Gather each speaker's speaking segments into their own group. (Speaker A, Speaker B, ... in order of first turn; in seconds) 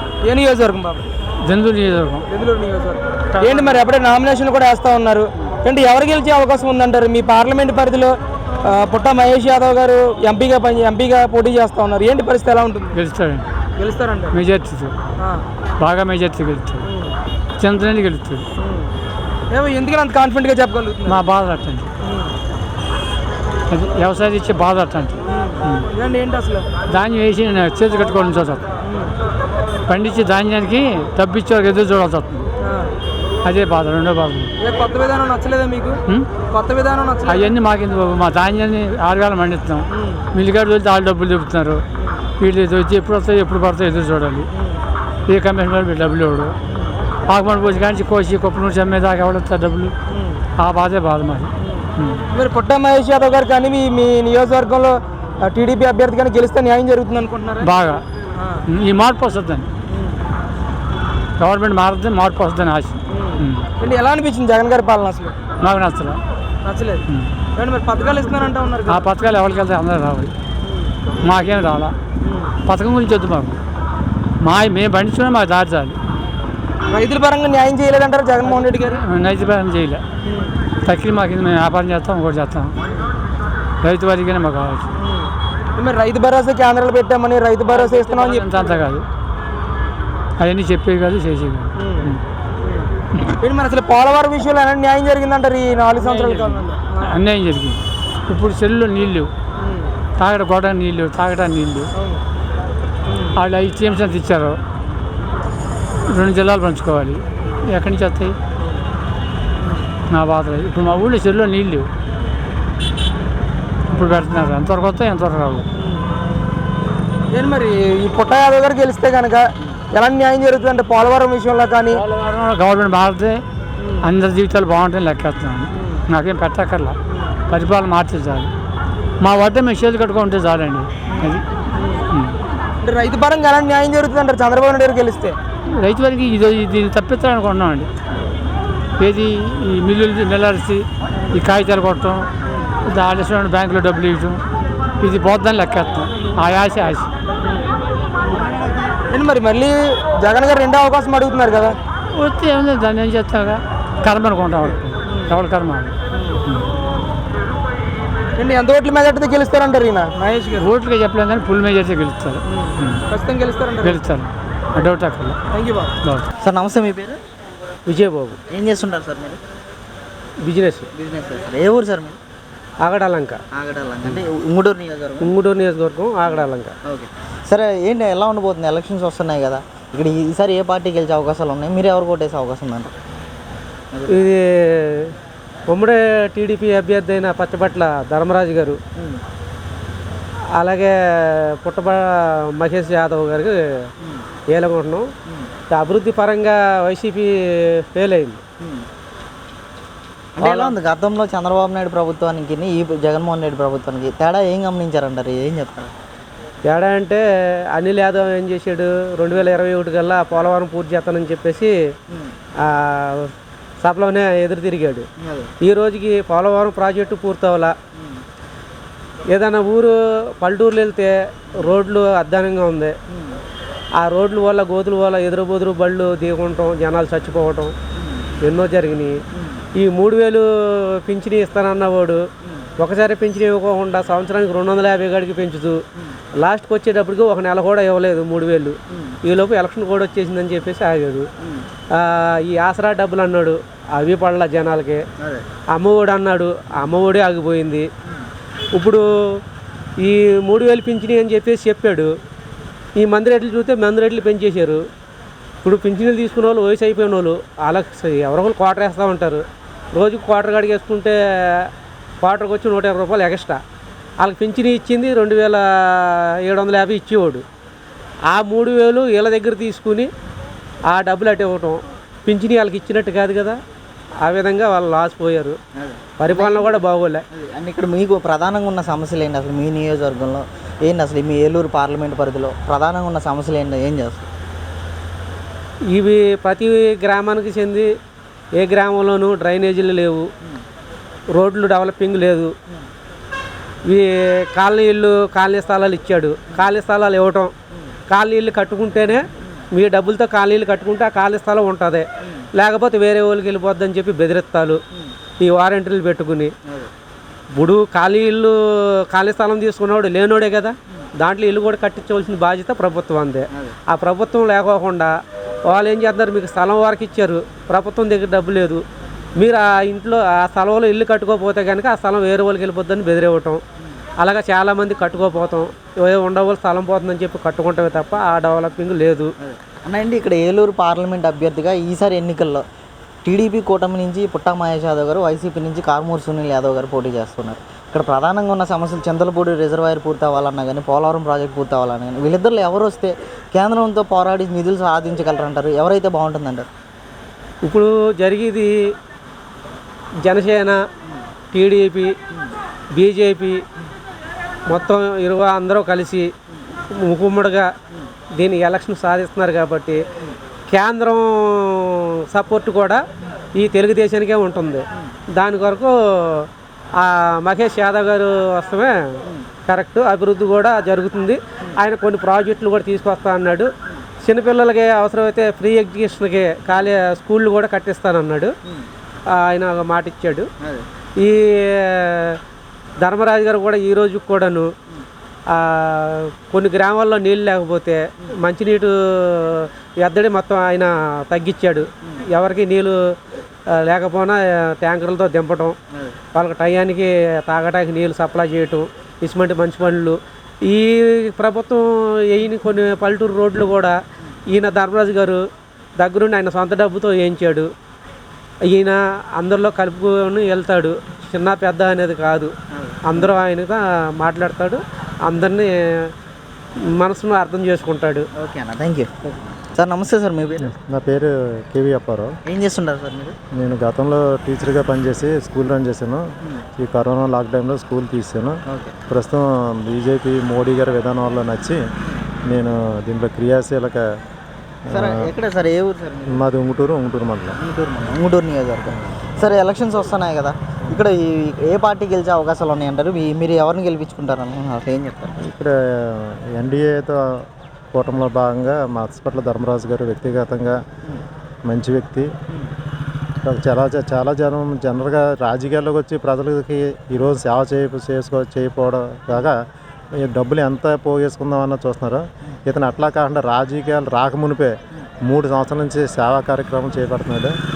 Speaker A: 0.2-1.1, 2.3-13.0, 13.8-14.3, 16.8-17.1, 18.6-18.9, 19.5-21.2, 22.0-22.3, 25.3-26.7, 28.8-29.1, 32.6-32.9, 34.6-37.5, 39.9-40.2, 44.5-44.8, 46.7-47.0, 50.1-50.4, 51.6-57.7, 58.4-58.6, 59.9-60.2, 63.1-65.3, 66.7-67.0, 67.5-69.1, 72.2-72.5, 76.9-79.0, 80.2-80.6, 85.0-88.8, 91.8-92.1, 92.6-92.9, 93.4-97.2, 99.6-99.9, 103.1-103.3, 109.6-109.9, 115.8-116.1, 117.3-122.0, 123.8-124.0, 125.8-126.0, 131.2-132.0, 132.8-135.4, 147.4-147.7, 149.1-151.8, 155.1-155.3, 156.1-156.4, 158.4-160.7, 162.5-164.0, 165.5-165.9
Speaker B: 1.5-2.2, 3.3-3.8, 12.9-13.4, 14.3-14.9, 15.8-16.9, 17.6-18.4, 21.1-21.9, 23.7-25.9, 26.9-28.6, 29.9-32.5, 33.4-34.5, 37.3-41.8, 42.4-44.5, 45.3-46.5, 47.3-49.9, 50.6-52.2, 57.6-58.0, 58.7-59.7, 61.4-63.7, 65.6-66.2, 68.9-70.3, 71.2-71.9, 72.7-73.6, 74.4-76.0, 78.5-80.0, 80.8-82.7, 83.8-84.9, 87.7-89.0, 90.4-92.2, 96.0-99.3, 100.2-101.9, 103.4-104.6, 106.1-108.3, 110.1-111.9, 113.9-115.7, 121.9-123.4, 124.0-127.0, 127.5-128.5, 129.2-131.4, 132.1-132.4, 135.8-137.9, 139.0-142.3, 142.9-144.4, 145.0-147.1, 152.1-156.7, 160.6-163.0, 163.8-165.4
Speaker C: 166.4-167.2, 168.5-169.4, 170.9-172.2, 173.5-175.3, 176.8-182.9, 183.9-184.2, 200.4-205.9, 215.2-215.5, 223.1-223.4, 275.8-276.8, 277.3-284.3, 329.4-332.6, 333.2-346.7, 412.7-413.3, 418.4-420.7, 422.5-423.4, 428.7-429.0, 434.9-436.5, 437.6-445.3
Speaker D: 167.9-168.4, 170.4-170.9, 172.8-173.4, 175.2-176.7, 184.1-185.1, 185.7-188.8, 190.6-193.6, 194.5-195.1, 195.7-198.4, 200.4-200.7, 206.7-211.7, 212.7-213.3, 213.8-215.1, 215.6-217.8, 219.3-222.9, 224.0-227.7, 228.4-229.2, 229.8-232.2, 232.8-235.8, 236.4-241.3, 241.9-245.0, 245.8-247.9, 248.8-249.1, 250.0-252.1, 253.0-254.8, 255.6-261.7, 262.2-263.6, 264.2-267.4, 268.3-270.1, 270.9-273.6, 274.2-275.6, 276.2-277.2, 285.9-287.9, 288.6-290.3, 291.3-292.5, 293.9-297.5, 298.1-304.8, 305.4-306.5, 307.6-308.6, 309.1-315.1, 315.7-318.8, 319.4-323.6, 324.2-329.3, 347.6-348.7, 350.2-350.8, 351.5-352.1, 352.9-353.6, 354.7-356.3, 356.9-357.7, 358.4-360.0, 360.7-363.0, 363.6-369.1, 369.7-373.7, 374.2-378.5, 379.3-380.5, 381.2-382.4, 383.0-384.7, 385.5-392.9, 393.7-395.8, 396.4-404.0, 404.5-405.4, 406.0-407.7, 408.7-412.5, 413.1-416.1, 416.8-418.3
Speaker E: 420.7-422.3, 423.6-426.3, 426.8-428.6, 429.1-431.8, 432.5-434.1, 434.9-435.3, 436.3-437.6, 445.4-450.8, 451.7-452.3, 453.4-459.6, 460.2-464.8, 465.3-467.6